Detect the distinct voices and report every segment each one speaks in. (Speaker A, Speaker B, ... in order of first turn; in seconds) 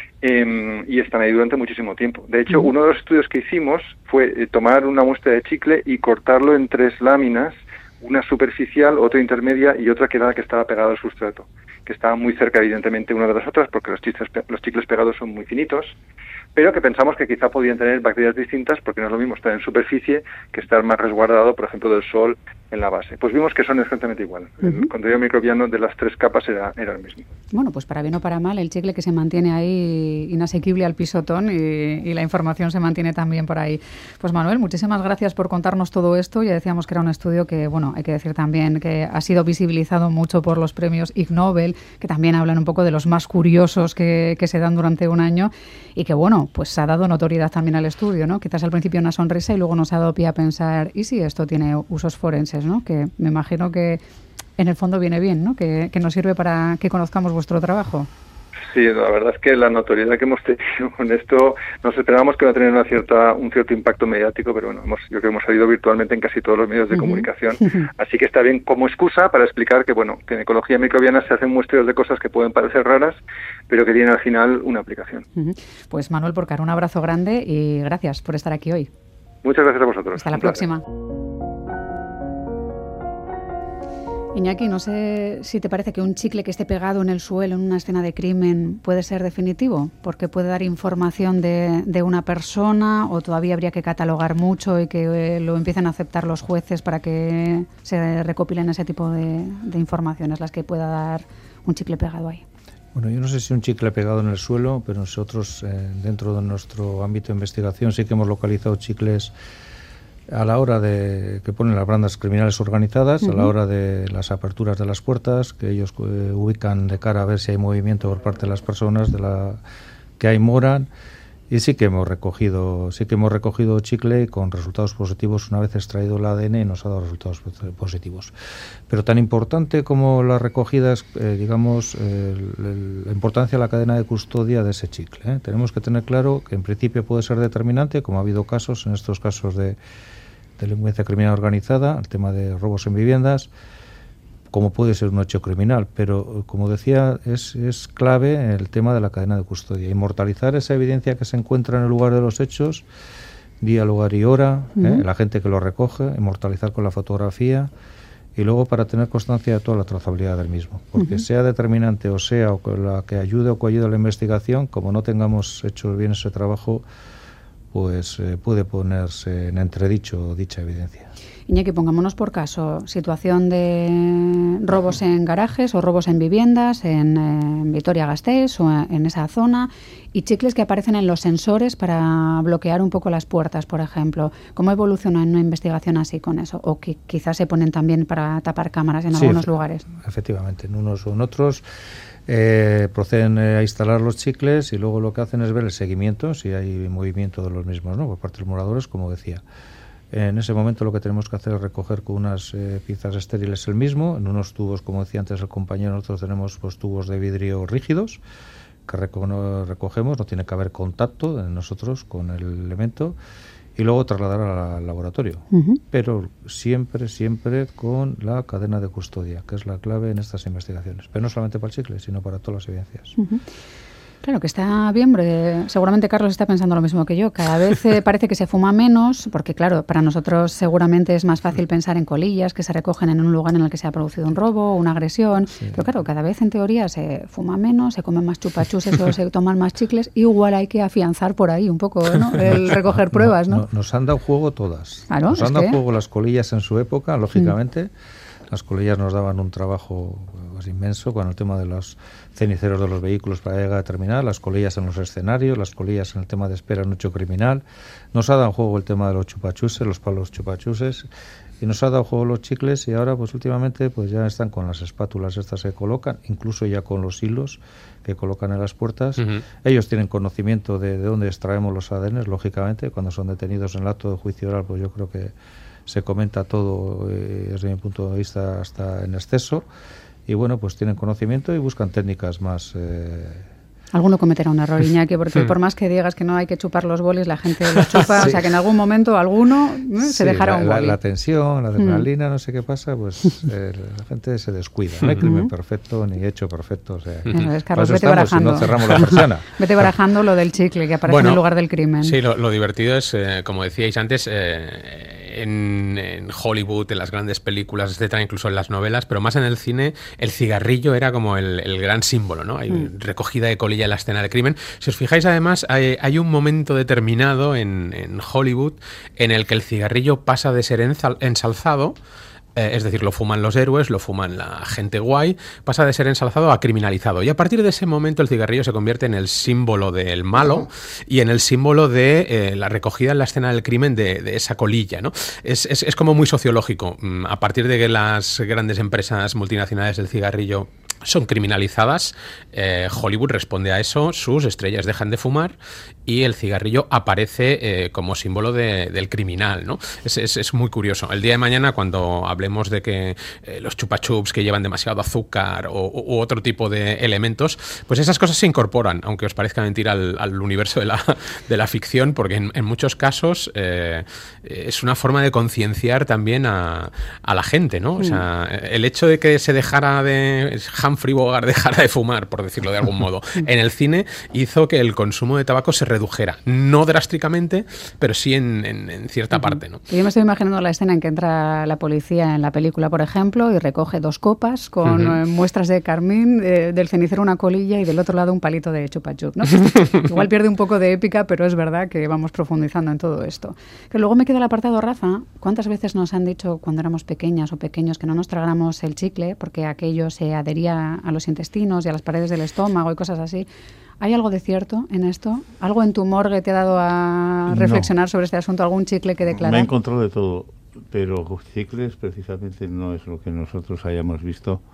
Speaker A: 0.2-15.9, 16.6-27.3, 58.7-73.2, 73.7-75.2, 79.4-80.6
Speaker B: 24.6-24.9, 27.5-54.0, 54.6-58.1, 67.0-67.8, 75.3-78.9, 80.2-80.8, 84.3-102.5, 113.2-113.5, 154.8-155.1, 161.0-161.2, 171.5-189.9, 215.5-215.8, 223.2-223.4, 224.2-243.7, 245.1-245.8, 283.9-291.0, 291.8-292.0, 295.2-295.5, 297.3-302.2, 379.3-403.5, 404.0-409.7
Speaker C: 102.9-109.3, 110.3-119.6, 120.2-120.9, 121.5-128.3, 128.9-139.8, 140.6-143.5, 144.5-152.9, 153.6-157.7, 158.4-166.8, 167.7-171.1, 189.1-191.7, 192.3-199.4, 200.1-208.2, 208.9-213.2, 213.8-223.2, 242.4-247.9, 248.5-261.1, 261.6-275.4, 275.9-279.7, 280.3-283.5, 290.0-299.5
Speaker D: 301.1-301.4, 302.0-322.0, 322.6-345.6, 346.1-379.8
Speaker E: 407.5-407.9, 409.3-414.6